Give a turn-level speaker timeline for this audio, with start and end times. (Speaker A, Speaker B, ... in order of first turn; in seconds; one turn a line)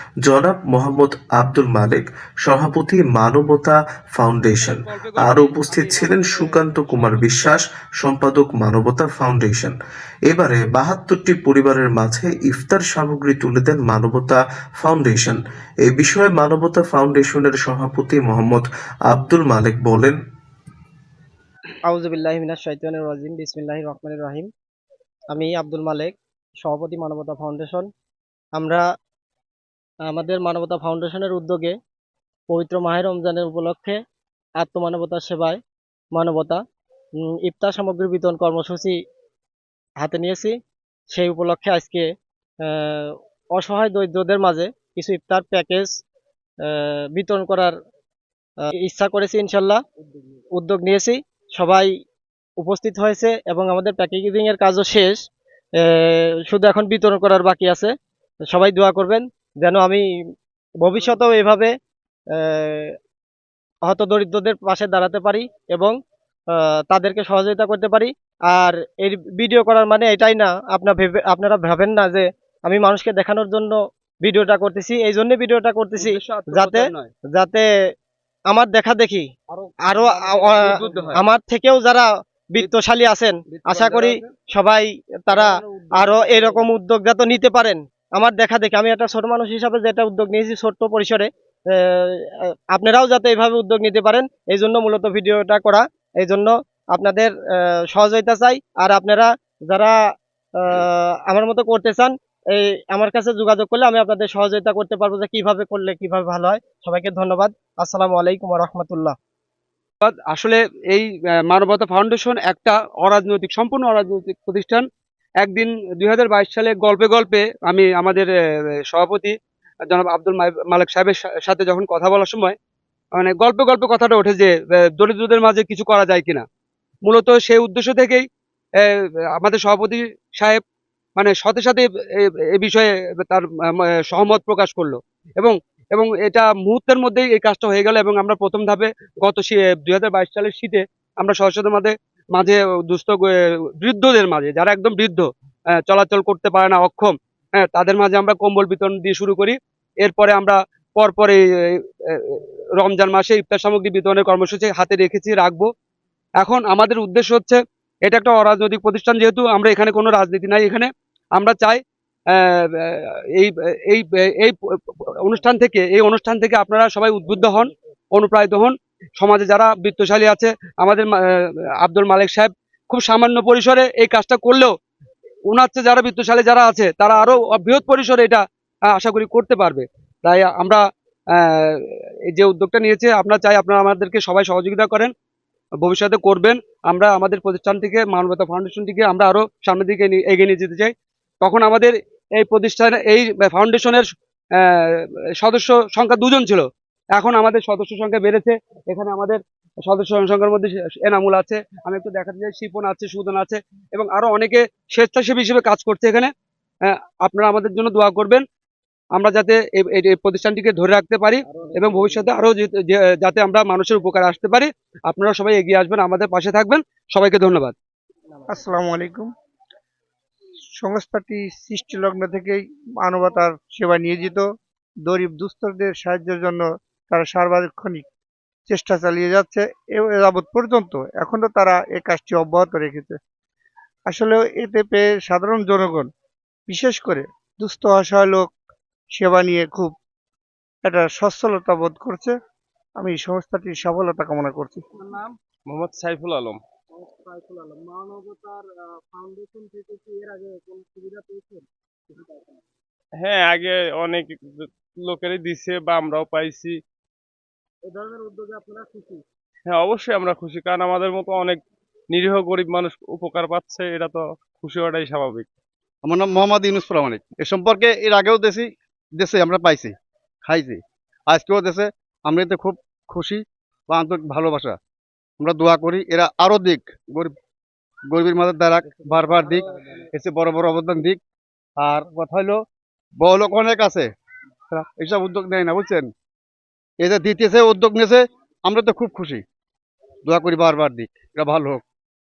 Speaker A: 0.2-20.2
Speaker B: 4.6-7.3
Speaker C: 21.8-24.5
Speaker C: 25.3-27.9
Speaker C: 28.6-28.8
Speaker C: 30.1-31.8
Speaker C: 32.5-34.0
Speaker C: 34.6-35.6
Speaker C: 36.1-36.6
Speaker C: 37.4-39.0
Speaker C: 40.0-40.6
Speaker C: 41.1-42.1
Speaker C: 42.6-46.0
Speaker C: 46.7-47.7
Speaker C: 48.8-49.8
Speaker C: 50.5-51.9
Speaker C: 52.6-55.2
Speaker C: 55.8-57.9
Speaker C: 58.5-60.0
Speaker C: 60.8-61.7
Speaker C: 62.4-62.9
Speaker C: 63.9-65.9
Speaker C: 66.5-77.7
Speaker B: 76.0-77.1
Speaker C: 78.5-79.3
Speaker B: 79.6-81.2
Speaker C: 79.8-100.0
Speaker B: 83.5-84.3
Speaker B: 85.3-86.6
Speaker C: 100.6-109.2
Speaker B: 110.0-114.8
Speaker B: 115.4-118.3
Speaker B: 118.9-119.3
Speaker B: 119.9-122.5
Speaker B: 123.2-126.4
Speaker B: 127.0-128.2
Speaker B: 128.8-130.6
Speaker B: 131.2-145.3
Speaker B: 145.8-155.7
Speaker B: 156.4-161.8
Speaker B: 162.3-174.7
Speaker B: 175.5-180.8
Speaker B: 181.3-185.1
Speaker B: 185.8-194.1
Speaker B: 194.6-206.3
Speaker B: 206.9-208.4
Speaker B: 209.2-217.7
Speaker D: 218.5-219.3
Speaker D: 220.8-224.4
Speaker D: 225.0-228.0
Speaker D: 228.7-233.2
Speaker D: 234.1-236.1
Speaker D: 236.7-238.5
Speaker D: 239.1-239.9
Speaker D: 240.8-242.3
Speaker D: 243.0-244.8
Speaker E: 245.7-246.6
Speaker E: 249.3-249.9
Speaker E: 253.2-256.8
Speaker E: 257.9-258.7
Speaker E: 259.7-265.5
Speaker F: 266.0-274.8
Speaker F: 275.4-277.3
Speaker F: 278.1-281.2
Speaker F: 281.8-282.6
Speaker F: 283.2-284.1
Speaker F: 284.7-286.1
Speaker F: 287.0-289.4
Speaker F: 290.2-291.8